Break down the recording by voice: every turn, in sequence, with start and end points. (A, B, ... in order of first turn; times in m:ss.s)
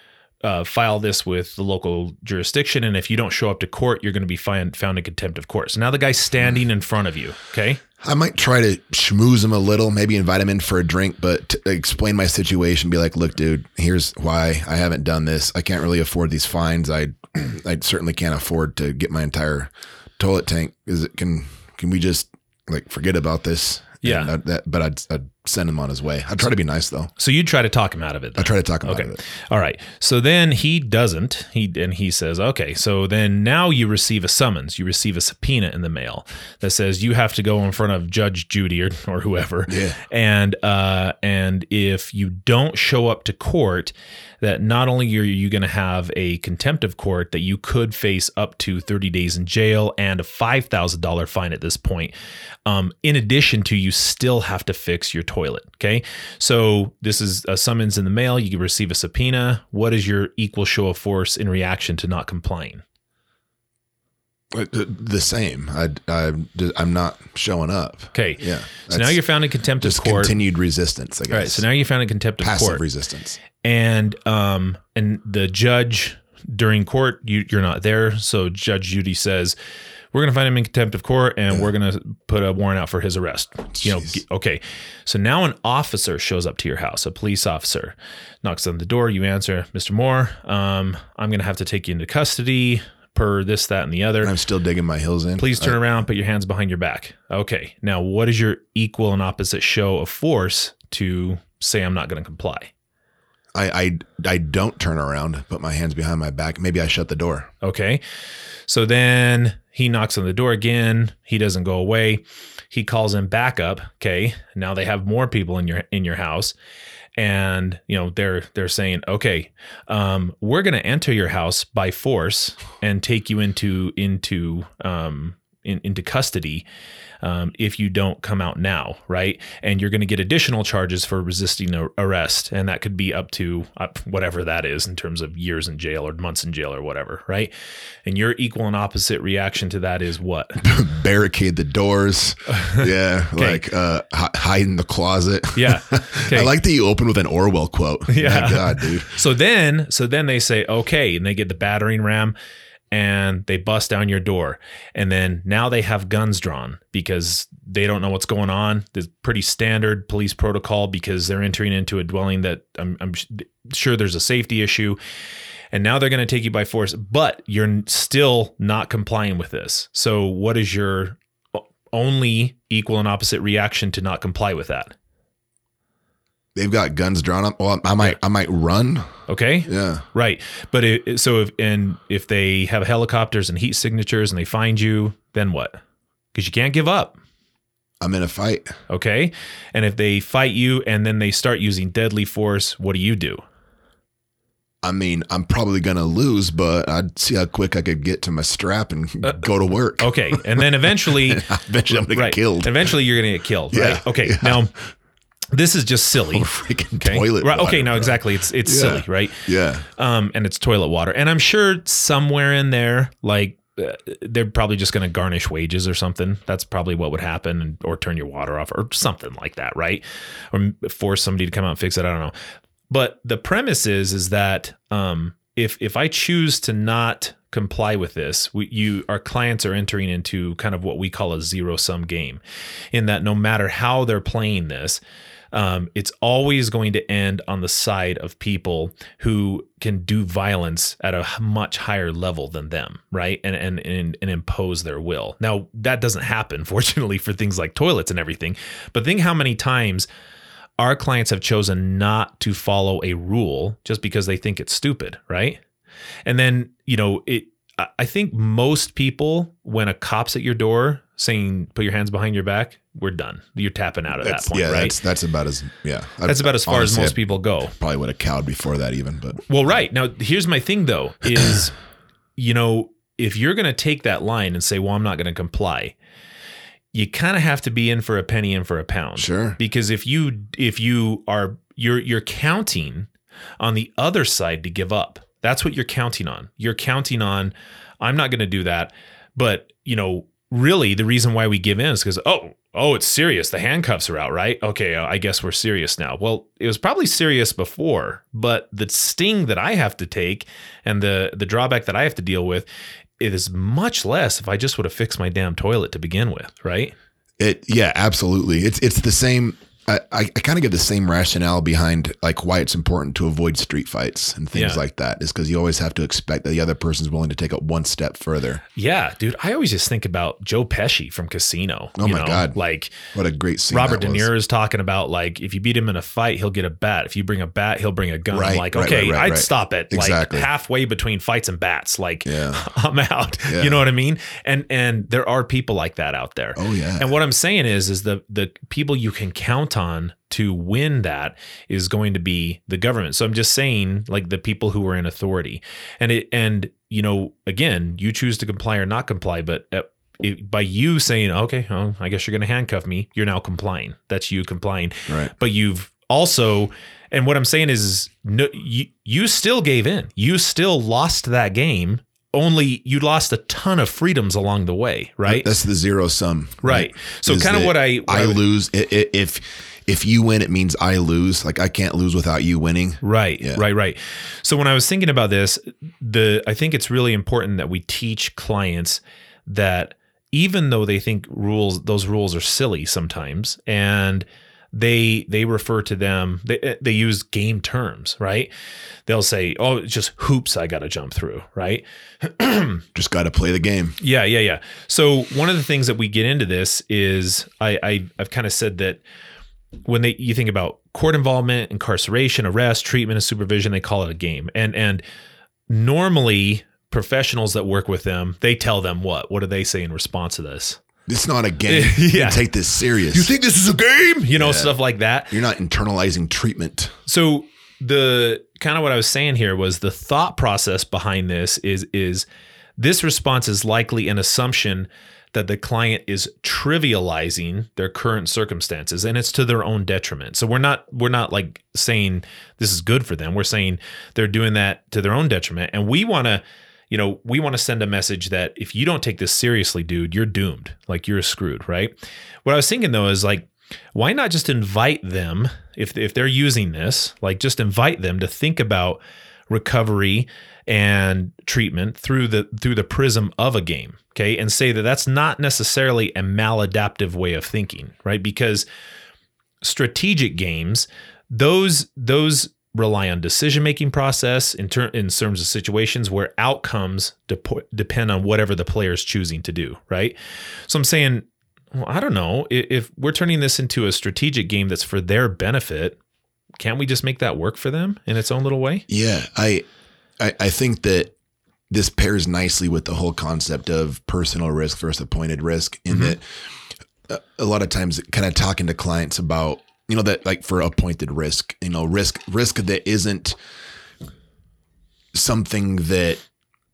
0:00.4-0:07.8 A
0:08.0-0:27.1 B
0:24.0-0:24.3 A
0:27.2-0:52.1 A
0:28.4-0:29.2 B
0:39.7-0:40.0 B
0:52.6-1:02.8 A
1:04.5-1:09.2 B
1:08.1-1:10.4 A
1:09.8-1:11.7 B
1:11.3-1:12.8 A
1:12.4-1:13.4 B
1:13.6-1:19.6 A
1:20.1-1:34.4 A
1:23.7-1:24.2 B
1:34.2-1:35.8 B
1:35.4-1:42.7 A
1:43.5-1:47.5 B
1:47.6-1:48.0 A
1:48.7-1:56.6 A
1:57.2-2:06.6 A
2:07.2-2:17.5 A
2:18.0-2:20.7 A
2:20.6-2:29.1 B
2:22.5-2:23.6 A
2:25.6-2:26.5 A
2:28.1-2:32.4 A
2:32.9-2:45.0 A
2:45.7-2:54.9 A
2:56.6-2:59.1 B
2:59.3-3:05.8 A
2:59.7-3:00.0 B
3:06.3-3:07.2 A
3:08.0-3:08.8 B
3:08.9-3:13.4 A
3:14.8-3:22.9 B
3:20.0-3:24.7 A
3:23.7-3:24.6 B
3:25.5-3:42.4 A
3:26.2-3:29.9 B
3:42.9-3:52.4 A
3:52.9-3:55.0 A
3:55.5-4:10.1 A
4:10.8-4:15.6 A
4:16.2-4:25.0 A
4:24.2-4:27.2 B
4:26.2-4:27.8 A
4:27.8-4:29.4 B
4:29.4-4:31.8 A
4:32.4-4:36.0 A
4:36.9-5:02.7 A
4:39.2-4:39.6 B
5:03.2-5:07.0 A
5:07.4-5:18.6 B
5:14.5-5:14.8 A
5:18.8-5:23.1 A
5:22.0-5:24.3 B
5:23.7-6:05.5 A
5:28.3-5:30.5 B
5:32.3-5:32.6 B
5:33.5-5:33.8 B
5:36.6-5:37.1 B
5:55.1-5:55.3 B
6:05.2-6:13.6 B
6:06.6-6:08.4 A
6:13.0-6:28.5 A
6:29.1-6:32.8 A
6:33.0-6:34.0 B
6:34.0-6:39.0 A
6:39.8-6:45.0 A
6:45.7-6:50.8 A
6:51.1-6:53.3 B
6:51.7-6:52.5 A
6:53.0-6:55.4 A
6:54.4-6:54.8 B
6:55.3-6:57.0 B
6:57.1-7:02.3 A
7:02.8-7:38.7 A
7:39.6-7:56.0 A
7:56.6-7:58.9 A
7:58.9-7:59.7 B
8:00.2-8:01.1 B
8:01.7-8:06.6 B
8:07.1-8:13.4 B
8:15.1-8:16.2 B